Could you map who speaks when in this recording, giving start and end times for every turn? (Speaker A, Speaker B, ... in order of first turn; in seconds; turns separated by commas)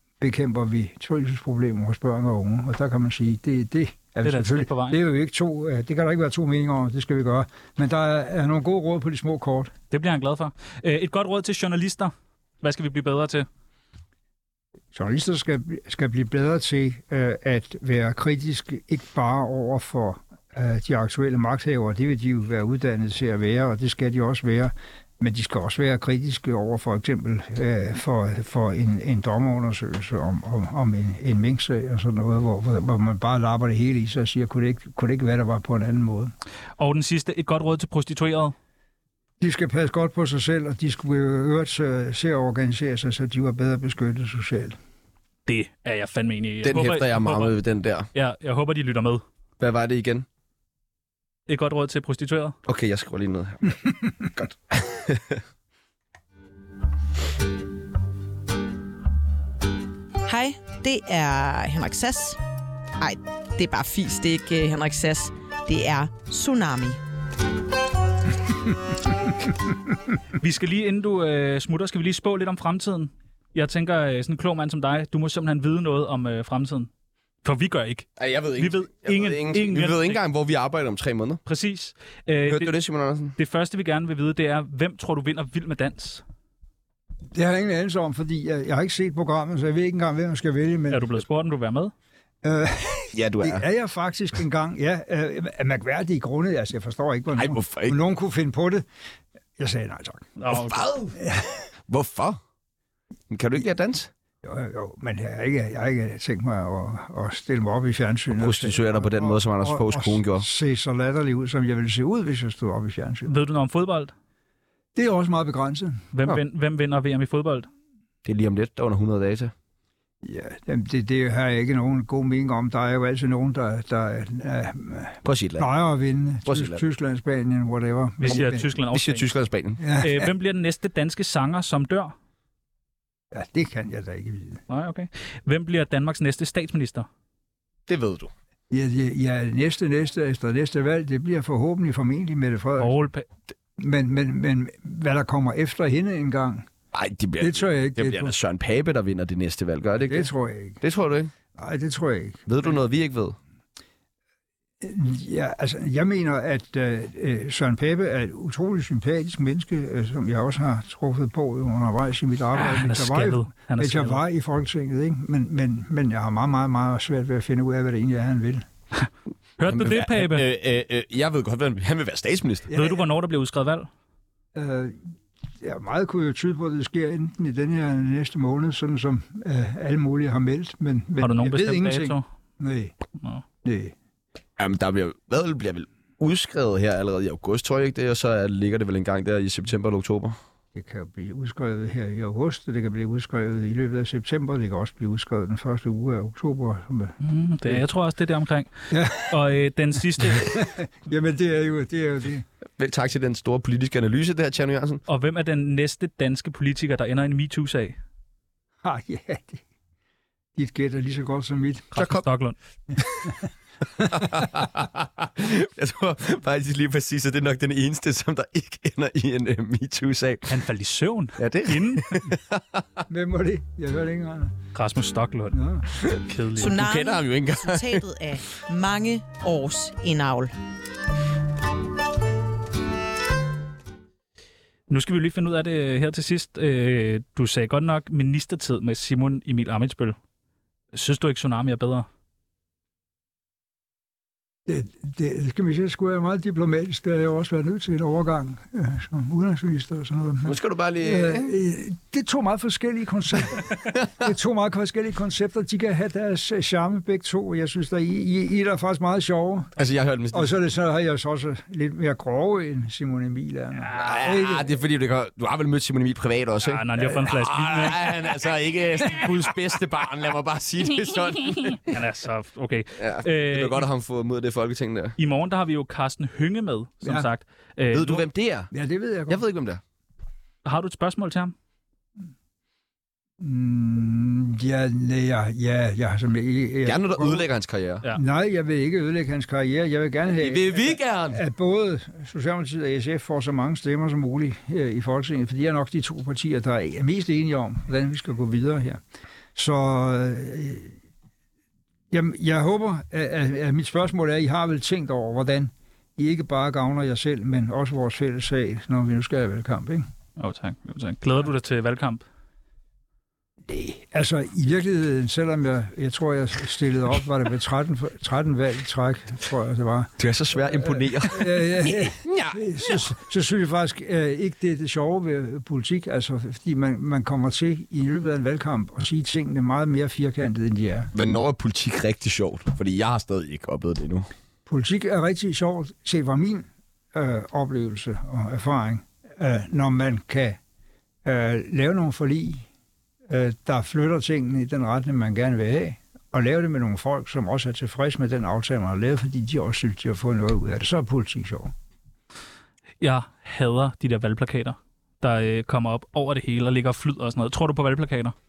Speaker A: 0.2-9.7, Speaker B: 4.2-5.0, Speaker B: 9.9-13.5, Speaker A: 14.9-36.3, Speaker B: 36.8-38.5, Speaker A: 39.4-44.8, Speaker B: 45.5-47.5, Speaker C: 46.6-48.1, Speaker B: 48.1-49.2, Speaker C: 49.6-50.2, Speaker B: 51.5-52.6, Speaker C: 52.6-55.4, Speaker D: 60.2-62.4, Speaker D: 63.0-67.0, Speaker B: 70.4-76.9, Speaker B: 77.4-80.2, Speaker C: 78.2-81.4, Speaker B: 81.5-82.7, Speaker C: 82.5-83.4, Speaker B: 83.3-86.2, Speaker A: 87.3-91.2, Speaker B: 90.9-91.9, Speaker A: 92.4-98.8, Speaker C: 93.1-93.6, Speaker C: 97.3-98.0, Speaker A: 99.6-100.3, Speaker B: 100.4-100.8, Speaker C: 100.5-101.2, Speaker A: 101.2-101.6, Speaker C: 101.9-102.4, Speaker C: 103.3-104.1, Speaker A: 104.4-113.3, Speaker C: 108.3-110.5, Speaker B: 113.2-114.1, Speaker A: 114.9-116.0, Speaker B: 116.1-117.7, Speaker C: 118.2-119.5, Speaker A: 120.2-128.7, Speaker C: 125.2-125.7, Speaker C: 126.4-126.8, Speaker B: 128.2-129.3, Speaker C: 128.9-129.8, Speaker A: 129.8-130.3, Speaker B: 130.0-132.1, Speaker A: 133.3-134.6, Speaker B: 134.7-137.1, Speaker C: 137.9-138.3, Speaker A: 138.7-143.0, Speaker B: 142.8-143.2, Speaker A: 143.8-146.7, Speaker C: 146.9-150.3, Speaker A: 147.4-148.3, Speaker A: 150.0-150.8, Speaker C: 150.8-151.3, Speaker A: 151.5-152.5, Speaker C: 152.5-153.4, Speaker A: 154.8-168.7, Speaker B: 162.5-164.2, Speaker B: 169.6-170.4, Speaker C: 169.7-172.7, Speaker A: 172.7-173.0, Speaker B: 172.7-173.9, Speaker A: 174.5-175.1, Speaker A: 175.6-182.9, Speaker B: 181.2-182.2, Speaker B: 183.2-183.4, Speaker A: 183.6-183.9, Speaker C: 184.6-190.4, Speaker A: 190.7-197.8, Speaker B: 197.2-200.6, Speaker A: 198.9-199.4, Speaker A: 200.2-202.4, Speaker C: 202.8-205.0, Speaker B: 205.1-208.0, Speaker A: 208.8-209.6, Speaker A: 210.6-211.9, Speaker B: 211.9-212.6, Speaker C: 211.9-212.2, Speaker C: 214.0-220.5, Speaker B: 220.5-222.2, Speaker C: 221.4-222.8, Speaker A: 223.1-224.6, Speaker B: 224.7-225.6, Speaker A: 225.5-225.9, Speaker C: 226.0-228.1, Speaker B: 226.2-226.7, Speaker D: 226.6-230.5, Speaker B: 234.9-240.2, Speaker B: 240.9-242.1, Speaker A: 244.7-259.7, Speaker C: 250.4-251.5, Speaker C: 259.8-260.5, Speaker A: 260.3-264.7, Speaker B: 263.8-264.3, Speaker C: 263.9-271.9, Speaker B: 266.6-268.1, Speaker B: 271.7-273.8, Speaker C: 273.0-275.2, Speaker B: 275.2-278.2, Speaker A: 277.0-277.3, Speaker C: 277.9-278.7, Speaker A: 278.7-279.4, Speaker C: 279.3-279.8, Speaker B: 280.6-281.5, Speaker A: 283.4-287.4, Speaker C: 286.8-288.0, Speaker A: 288.1-299.0, Speaker C: 290.3-291.4, Speaker A: 299.5-301.0, Speaker A: 302.1-310.1, Speaker B: 310.4-312.2, Speaker A: 313.7-331.1, Speaker C: 320.2-323.1, Speaker C: 331.1-334.3, Speaker A: 334.6-340.6, Speaker A: 341.2-342.7, Speaker A: 343.3-351.7, Speaker B: 353.0-358.3